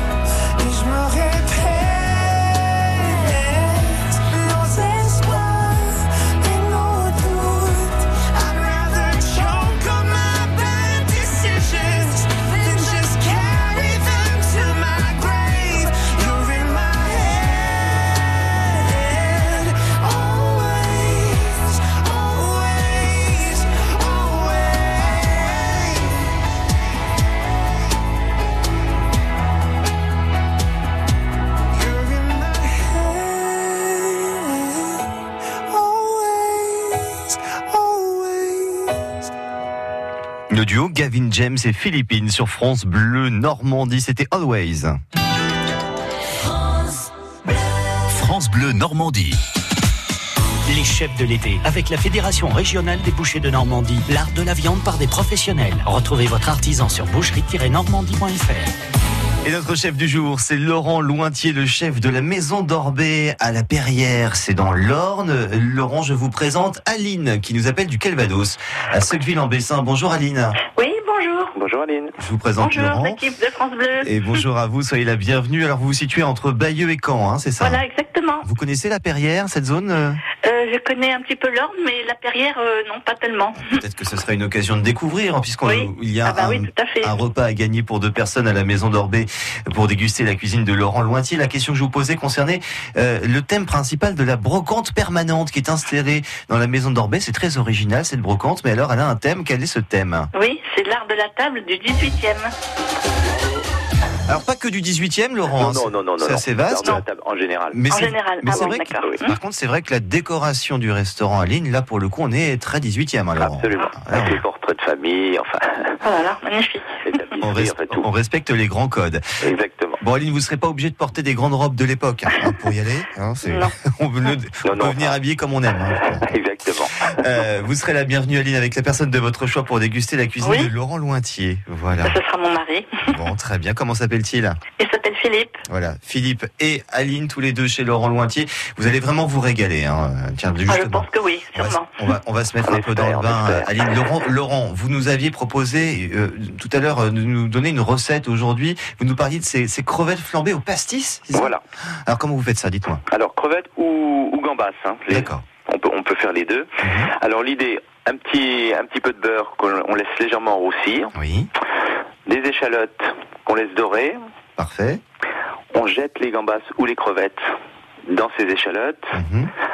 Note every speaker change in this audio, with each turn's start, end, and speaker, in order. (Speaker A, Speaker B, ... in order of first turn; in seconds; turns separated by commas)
Speaker A: 0.6-26.3, Speaker A: 31.7-34.8, Speaker A: 35.7-39.2, Speaker B: 40.5-45.0, Speaker C: 48.1-49.4, Speaker C: 50.6-58.7, Speaker B: 59.4-70.6, Speaker D: 70.8-71.5, Speaker E: 71.5-72.1, Speaker B: 72.2-73.2, Speaker D: 72.6-74.1, Speaker B: 74.0-77.8, Speaker D: 77.6-78.5, Speaker B: 78.4-80.2, Speaker D: 80.4-83.8, Speaker B: 83.6-100.3, Speaker D: 85.6-87.1, Speaker D: 100.3-102.5, Speaker B: 104.3-107.0, Speaker E: 105.5-107.8, Speaker B: 107.7-114.4, Speaker D: 107.9-109.3, Speaker E: 108.5-109.2, Speaker E: 113.4-116.0, Speaker D: 116.0-116.9, Speaker E: 117.0-118.1, Speaker B: 117.4-119.2, Speaker E: 119.4-120.0, Speaker B: 120.0-126.3, Speaker D: 123.4-123.7, Speaker E: 124.6-125.2, Speaker E: 126.1-127.0, Speaker B: 127.1-132.2, Speaker D: 130.4-130.7, Speaker D: 132.0-133.1, Speaker B: 133.1-134.6, Speaker D: 134.8-135.6, Speaker B: 135.7-151.5, Speaker D: 140.7-141.9, Speaker E: 142.6-143.7, Speaker E: 151.3-151.6, Speaker B: 152.1-153.0, Speaker E: 153.1-161.1, Speaker B: 155.1-155.4, Speaker B: 156.8-157.1, Speaker B: 161.2-161.5, Speaker E: 162.2-164.2, Speaker B: 164.6-165.0, Speaker E: 165.7-167.4, Speaker E: 168.1-169.2, Speaker B: 169.1-169.5